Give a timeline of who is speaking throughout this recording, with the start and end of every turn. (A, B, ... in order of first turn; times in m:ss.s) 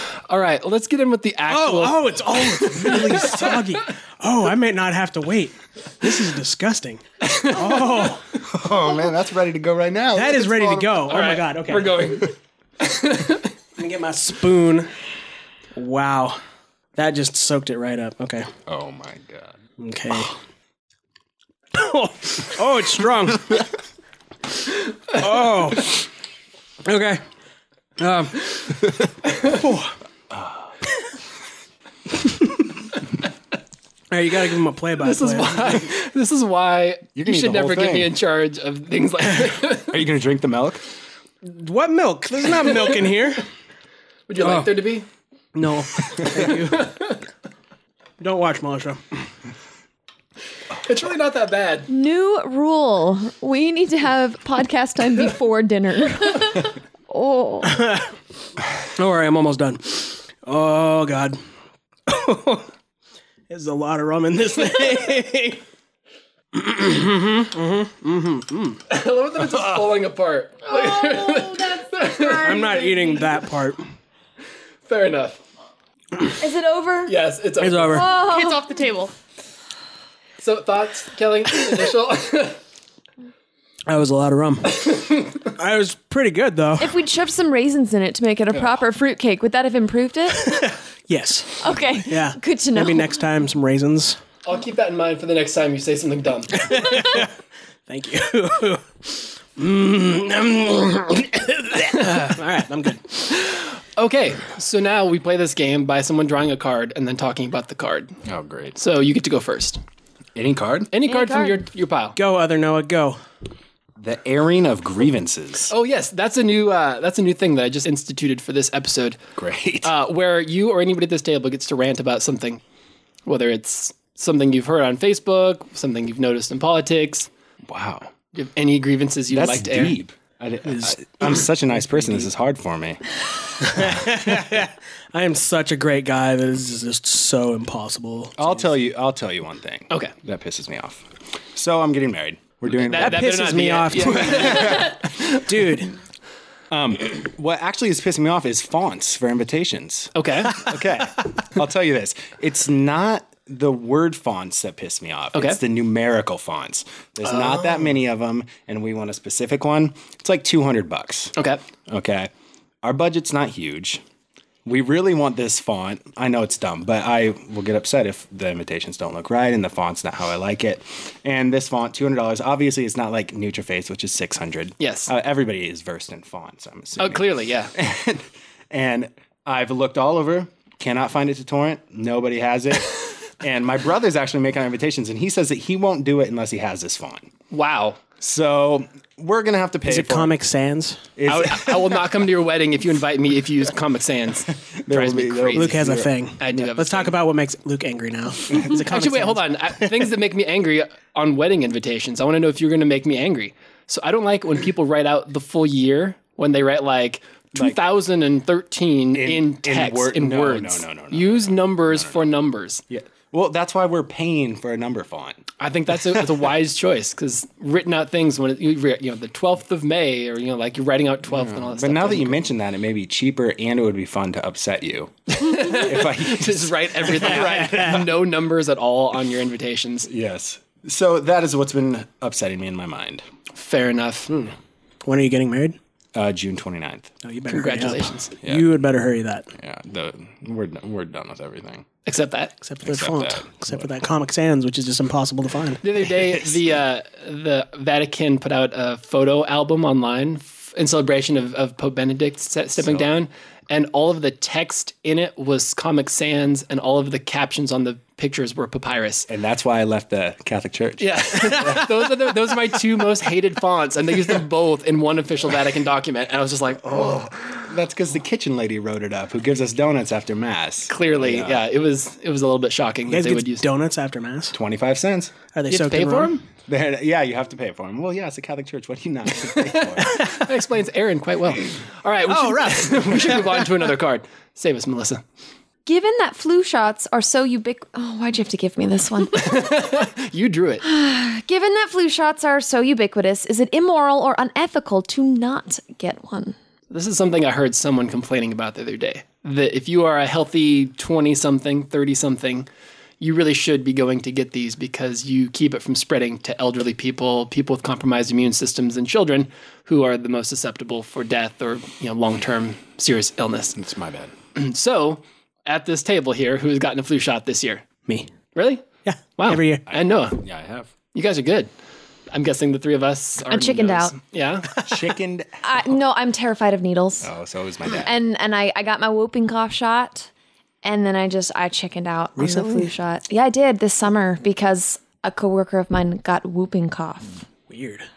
0:00.3-0:03.6 A
0:01.5-0:08.5 B
0:07.2-0:08.1 A
0:08.4-0:11.0 C
0:10.1-0:12.1 B
0:11.0-0:13.5 A
0:13.8-0:14.9 B
0:15.7-0:16.4 B
0:16.9-0:18.5 B
0:18.7-0:19.6 C
0:19.8-0:20.4 B
0:21.7-0:23.7 B
0:25.1-0:26.1 B
0:26.8-0:27.2 B
0:28.0-0:29.9 B
0:30.3-0:30.6 C
0:32.2-0:32.6 B
0:34.1-0:35.9 B
0:35.0-0:40.0 A
0:37.2-0:38.1 C
0:39.9-0:40.8 C
0:41.4-0:43.5 B
0:44.3-0:45.0 A
0:45.5-0:46.9 B
0:46.4-0:47.2 A
0:48.2-0:49.0 B
0:50.8-0:51.9 A
0:51.9-0:57.9 D
0:57.6-0:58.1 B
0:58.9-1:01.4 B
1:02.1-1:02.7 B
1:03.5-1:05.6 B
1:06.5-1:08.8 B
1:08.9-1:12.7 A
1:10.7-1:13.4 E
1:12.4-1:13.8 B
1:14.8-1:15.4 A
1:16.4-1:17.1 D
1:17.0-1:18.1 A
1:17.6-1:18.1 B
1:17.9-1:18.7 D
1:18.1-1:19.1 E
1:20.4-1:22.6 A
1:23.9-1:27.0 B
1:24.7-1:25.4 A
1:26.8-1:30.7 D
1:30.4-1:34.2 B
1:31.6-1:33.1 D
1:34.4-1:36.8 A
1:36.5-1:37.3 B
1:37.9-1:43.2 B
1:43.2-1:48.1 A
1:48.2-1:48.8 C
1:48.7-1:49.8 A
1:50.3-1:50.9 C
1:50.9-1:52.2 A
1:51.1-1:51.6 D
1:52.2-1:53.2 B
1:54.0-1:55.7 C
1:55.7-1:59.2 A
1:59.4-1:59.9 C
1:59.8-2:02.6 A
2:03.2-2:07.3 A
2:07.6-2:08.1 C
2:08.3-2:10.0 A
2:09.3-2:13.0 C
2:10.6-2:11.0 B
2:11.7-2:12.3 B
2:13.6-2:18.6 B
2:13.7-2:14.1 C
2:18.4-2:23.3 C
2:22.8-2:25.4 A
2:22.9-2:25.9 B
2:23.9-2:25.0 C
2:26.7-2:41.3 C
2:30.1-2:30.6 A
2:35.3-2:35.6 A
2:41.4-2:41.6 A
2:41.9-2:42.3 C
2:42.8-2:44.0 C
2:44.6-3:07.3 C
2:54.8-2:55.1 A
2:57.0-2:57.7 A
3:07.5-3:08.0 A
3:08.2-3:10.3 C
3:09.8-3:11.0 B
3:11.2-3:12.0 C
3:11.3-3:15.8 A
3:14.8-3:16.1 C
3:15.5-3:20.1 B
3:16.4-3:17.2 A
3:18.9-3:32.8 A
3:27.5-3:27.8 C
3:29.1-3:32.2 C
3:32.9-3:35.4 C
3:35.6-3:42.4 A
3:41.3-3:48.0 C
3:45.3-3:50.1 A
3:50.1-3:53.2 C
3:53.5-3:54.4 A
3:54.3-3:55.8 B
3:56.1-3:57.1 C
3:57.2-3:59.5 B
3:57.5-3:58.3 A
3:59.6-4:01.8 C
4:02.0-4:02.6 A
4:02.6-4:05.8 B
4:02.8-4:03.9 C
4:05.8-4:19.3 A
4:12.8-4:13.1 C
4:19.3-4:21.8 C
4:21.0-4:27.3 A
4:26.9-4:31.6 C
4:30.9-4:33.7 A
4:33.1-4:34.6 B
4:34.5-4:35.3 C
4:35.5-4:36.3 B
4:35.7-4:36.4 A
4:36.7-4:40.2 C
4:39.8-4:45.2 A
4:42.3-4:43.7 B
4:45.8-4:49.7 D
4:49.3-4:50.8 A
4:50.8-4:56.6 D
4:56.9-5:02.7 A
5:03.2-5:13.8 A
5:13.7-5:14.3 C
5:14.5-5:17.9 A
5:18.5-5:20.4 A
5:19.0-5:19.9 B
5:19.9-5:20.9 C
5:21.1-5:21.7 A
5:22.3-5:24.9 A
5:23.5-5:24.1 D
5:24.8-5:25.6 C
5:25.6-5:27.3 D
5:27.2-5:28.1 C
5:28.0-5:30.3 D
5:30.8-5:37.5 D
5:32.4-5:32.9 B
5:37.7-5:38.1 B